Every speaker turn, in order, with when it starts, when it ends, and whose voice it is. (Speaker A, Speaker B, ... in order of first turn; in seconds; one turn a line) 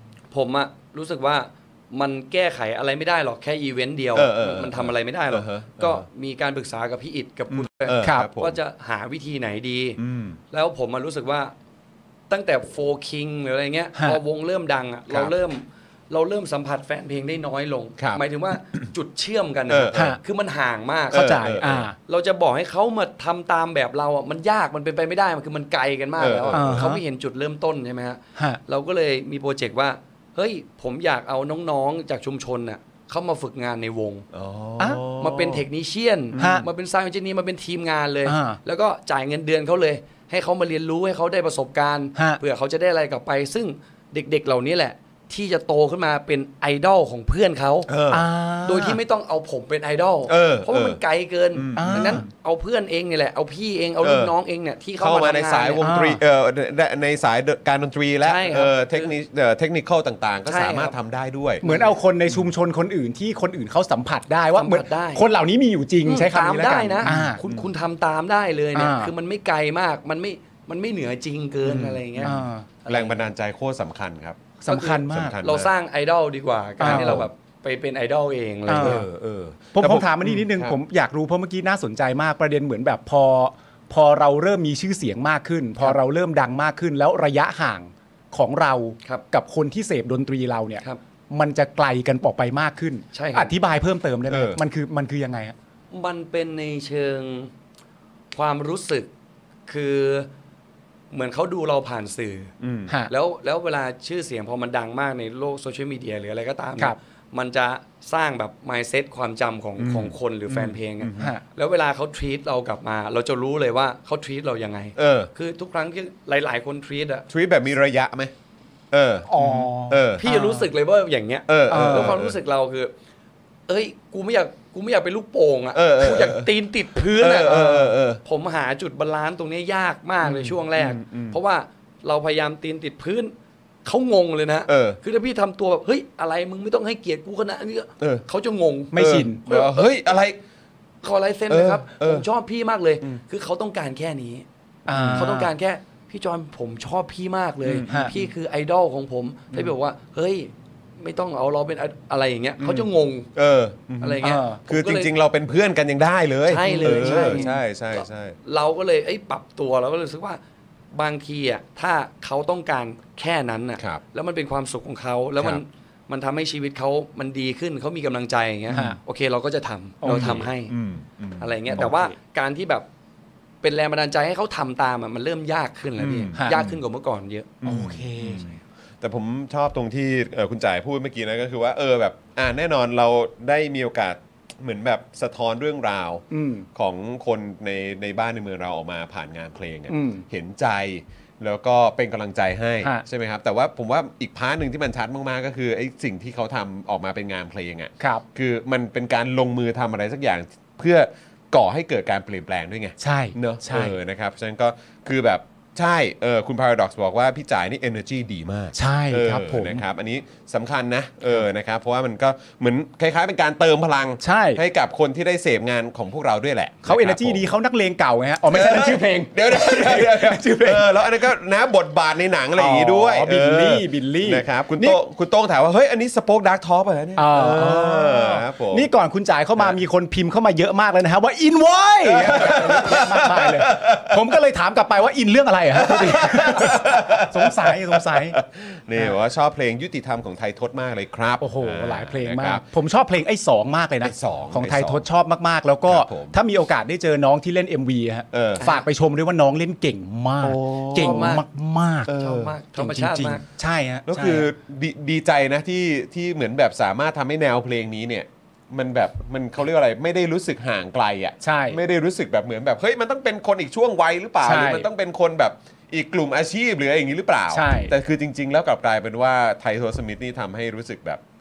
Speaker A: 0.3-10.0
Speaker B: 4.2-6.0
Speaker B: 7.5-8.6
Speaker B: 10.0-10.4
Speaker A: 10.5-11.5
Speaker A: 12.3-21.4
Speaker B: 15.1-15.3
Speaker B: 18.0-18.2
Speaker B: 19.7-20.2
Speaker C: 19.9-20.2
Speaker B: 21.1-21.9
Speaker C: 21.1-22.0
Speaker A: 22.1-34.3
Speaker B: 26.2-27.0
Speaker C: 26.5-27.0
Speaker B: 34.3-35.6
Speaker A: 35.2-47.9
Speaker B: 36.3-36.7
Speaker C: 36.4-36.7
Speaker C: 38.2-38.6
Speaker C: 42.2-42.4
Speaker B: 47.9-48.3
Speaker C: 48.1-49.0
Speaker A: 48.6-55.9
Speaker B: 50.3-51.0
Speaker B: 51.5-52.3
Speaker C: 51.8-52.2
Speaker B: 54.0-54.3
Speaker B: 55.0-61.6
Speaker C: 55.8-56.2
Speaker A: 58.2-59.1
Speaker A: 60.5-61.0
Speaker C: 61.6-67.4
Speaker A: 61.6-61.9
Speaker A: 64.5-65.3
Speaker A: 66.0-73.3
Speaker B: 67.0-67.7
Speaker C: 68.8-69.1
Speaker B: 71.6-74.4
Speaker C: 72.2-72.7
Speaker C: 74.6-75.4
Speaker A: 74.7-79.0
Speaker B: 75.1-75.7
Speaker C: 76.8-77.2
Speaker B: 76.8-77.3
Speaker C: 78.7-79.0
Speaker B: 78.7-80.8
Speaker C: 79.7-95.5
Speaker A: 93.1-93.5
Speaker B: 94.3-94.6
Speaker A: 95.9-97.5
Speaker A: 98.3-99.1
Speaker A: 99.7-100.3
Speaker A: 101.1-102.5
Speaker B: 102.6-102.9
Speaker A: 103.1-117.3
Speaker B: 109.8-111.3
Speaker B: 115.0-115.3
Speaker B: 117.3-118.3
Speaker B: 118.9-120.2
Speaker C: 119.3-120.7
Speaker A: 120.2-122.9
Speaker B: 121.5-122.4
Speaker C: 121.7-122.2
Speaker A: 123.7-133.3
Speaker B: 125.7-126.5
Speaker B: 127.2-128.2
Speaker C: 127.5-127.9
Speaker B: 130.2-131.4
Speaker A: 133.8-139.9
Speaker B: 134.7-135.0
Speaker C: 138.9-139.4
Speaker B: 138.9-140.4
Speaker A: 141.0-144.5
Speaker B: 141.5-142.3
Speaker C: 144.9-145.5
Speaker B: 144.9-145.3
Speaker A: 145.2-153.3
Speaker B: 147.6-148.3
Speaker C: 147.9-148.1
Speaker B: 152.6-158.4
Speaker A: 154.0-155.1
Speaker C: 154.2-154.6
Speaker A: 156.5-160.4
Speaker C: 156.6-157.6
Speaker A: 160.9-170.7
Speaker B: 165.4-165.6
Speaker B: 168.7-168.9
Speaker C: 168.7-169.0
Speaker C: 170.0-170.5
Speaker B: 170.1-172.0
Speaker A: 171.4-172.9
Speaker C: 171.7-172.1
Speaker A: 173.6-177.6
Speaker B: 176.0-176.8
Speaker C: 176.4-176.7
Speaker B: 177.6-217.5
Speaker C: 177.6-178.6
Speaker C: 186.3-186.7
Speaker C: 189.9-190.2
Speaker C: 203.0-204.0
Speaker C: 208.8-209.8
Speaker C: 214.2-214.6
Speaker C: 216.8-220.9
Speaker B: 218.5-228.9
Speaker C: 222.6-225.0
Speaker C: 227.2-238.4
Speaker B: 232.1-234.2
Speaker B: 235.8-242.6
Speaker C: 241.4-252.1
Speaker B: 244.0-245.1
Speaker B: 245.9-246.4
Speaker B: 248.3-248.6
Speaker A: 248.6-248.9
Speaker B: 250.4-251.4
Speaker A: 250.9-251.5
Speaker B: 252.1-252.6
Speaker A: 252.1-253.4
Speaker C: 252.8-254.5
Speaker B: 254.1-271.2
Speaker C: 261.4-261.8
Speaker C: 264.4-264.9
Speaker C: 267.5-267.9